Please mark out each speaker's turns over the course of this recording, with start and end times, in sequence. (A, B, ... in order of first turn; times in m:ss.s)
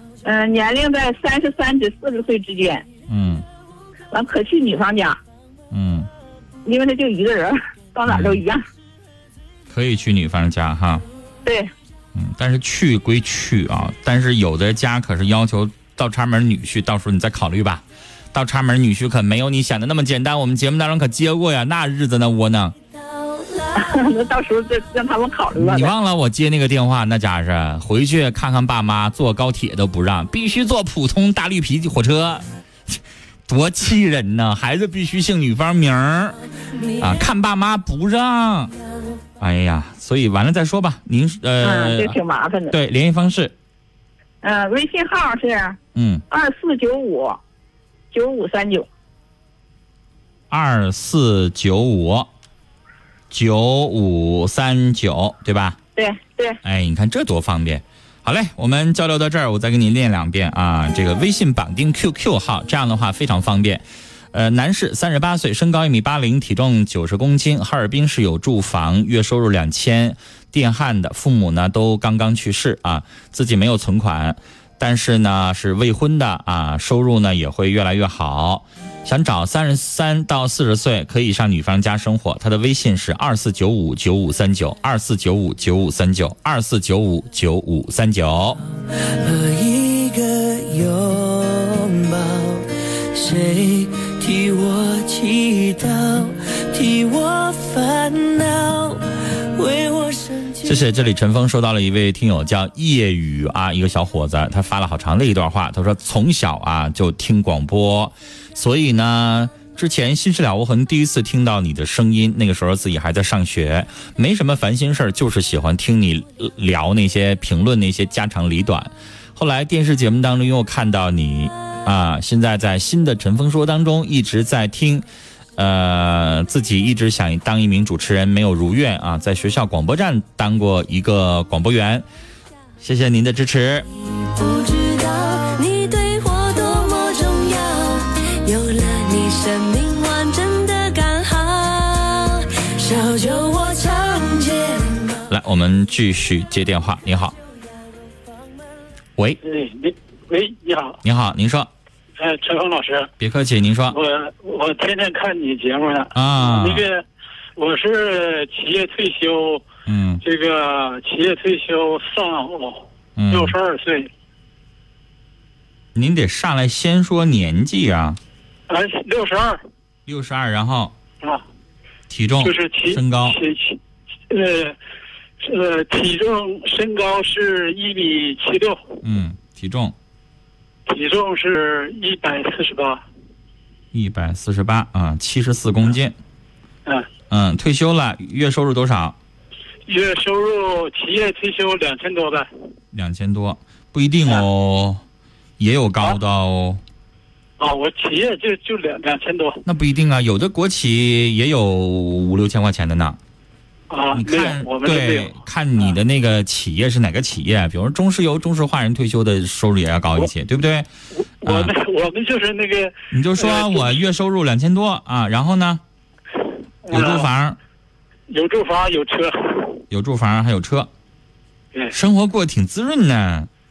0:00.2-0:02.9 A
0:03.1-0:03.4 B
0:04.1-0:05.2 A
0:05.7-0:06.1 B
0:06.7-0:08.6 A
0:08.1-0:08.4 B
0:09.7-0:11.0 B
0:11.4-0:11.7 A
0:12.2-0:22.8 B
0:23.3-0:23.7 C
0:23.8-0:25.9 A
0:25.5-0:32.4 B
0:33.5-0:36.4 B
0:37.0-0:38.7 B
0:39.4-0:42.2 B
0:41.6-0:42.8 A
0:42.7-0:43.5 B
0:44.4-0:45.8 A
0:46.0-0:46.2 B
0:46.3-0:47.4 A
0:48.1-0:48.9 A
0:50.5-0:52.3 B
0:53.3-0:55.8 B
0:56.0-0:56.6 A
0:56.6-1:28.6 B
1:29.1-1:40.8 C
1:40.6-2:05.0 B
2:05.6-2:12.0 B
2:12.8-2:13.9 B
2:14.1-2:25.2 C
2:25.3-2:27.4 B
2:29.4-2:31.0 D
2:31.0-2:31.7 B
2:32.2-2:33.1 D
2:33.2-2:34.0 B
2:33.9-2:37.0 D
2:36.2-2:36.8 B
2:37.6-2:39.6 D
2:39.9-2:40.2 B
2:40.2-2:44.1 D
2:43.2-2:43.6 B
2:46.0-2:48.2 B
2:48.7-2:49.6 D
2:50.1-2:50.9 B
2:52.1-2:53.4 B
2:52.4-2:53.8 D
2:54.3-2:54.8 D
2:55.4-2:58.8 D
2:59.0-2:59.9 B
3:00.9-3:03.0 D
3:03.9-3:06.2 B
3:07.3-3:09.2 B
3:09.9-3:12.5 D
3:12.9-3:15.0 B
3:15.6-3:16.8 B
3:17.6-3:19.6 D
3:19.6-3:23.2 B
3:23.9-3:25.4 D
3:24.1-3:30.9 B
3:31.1-3:34.0 D
3:31.4-3:31.7 B
3:33.1-3:35.8 B
3:36.9-3:37.3 D
3:36.9-3:37.6 B
3:38.3-3:39.8 D
3:39.9-3:40.9 B
3:41.9-3:43.5 B